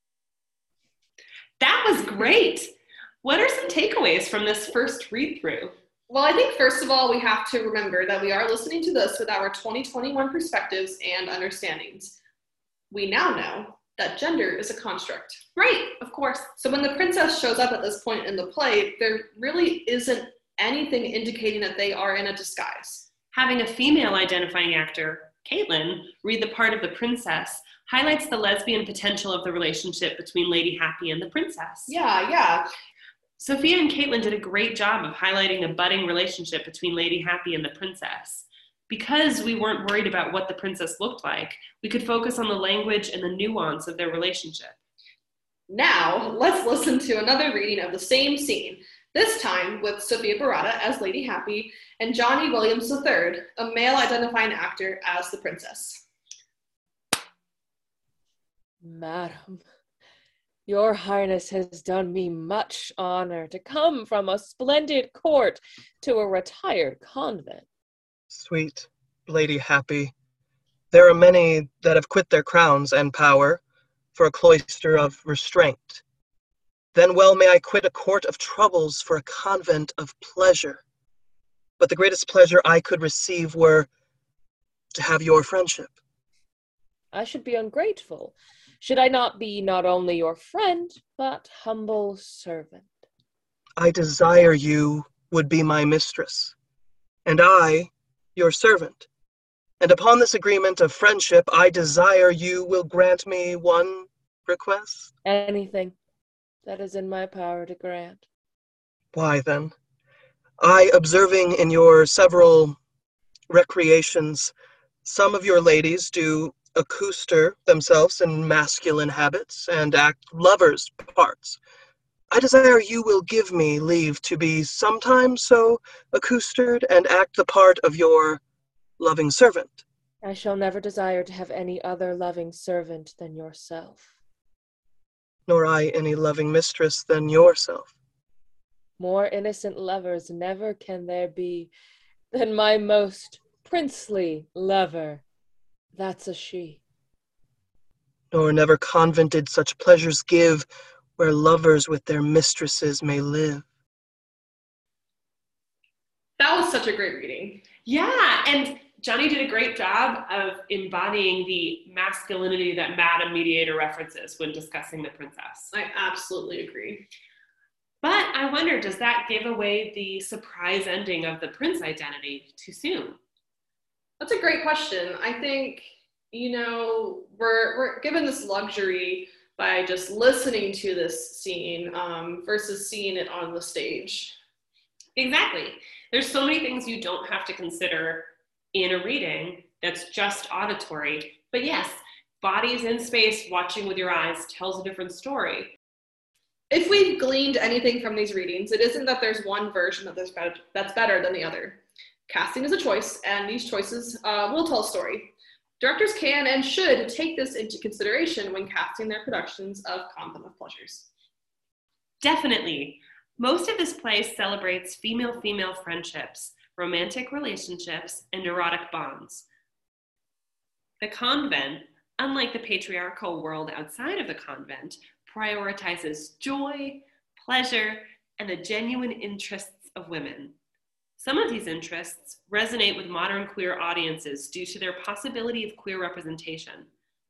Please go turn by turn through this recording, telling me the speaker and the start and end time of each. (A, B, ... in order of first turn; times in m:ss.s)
0:01.6-0:05.7 A
0:06.1-0:12.2 B
0:12.9-0:23.0 B
0:23.3-0:31.9 A
0:31.9-0:32.6 B
0:33.4-0:44.8 A
0:45.7-0:56.0 B
0:58.8-0:59.6 C
1:00.6-1:07.6 C
1:08.3-1:10.1 D
1:10.9-1:13.6 D
1:14.1-1:16.0 D
1:16.9-1:20.8 D
1:21.8-1:23.9 D
1:24.9-1:25.9 D
1:27.1-1:33.0 C
1:33.8-1:36.5 D
1:37.2-1:39.1 D
1:39.8-1:45.1 D
1:45.2-1:45.9 C
1:46.6-1:48.2 C
1:49.1-1:49.7 D
1:50.6-1:52.8 D
1:53.5-1:54.5 D
1:55.0-2:01.6 D
2:02.3-2:08.4 D
2:09.0-2:09.8 D
2:10.2-2:14.1 C
2:15.5-2:17.9 D
2:19.0-2:21.7 C
2:22.3-2:25.2 C
2:25.9-2:26.8 C
2:28.3-2:30.6 D
2:31.2-2:33.6 D
2:36.4-2:37.6 B
2:37.8-2:45.7 A
2:45.7-2:47.0 B
2:48.0-2:53.2 A
2:54.2-3:04.3 B
3:05.2-3:15.7 A
3:16.7-3:31.1 B
3:32.2-3:39.4 A
3:41.0-3:50.5 A
3:51.2-3:56.9 A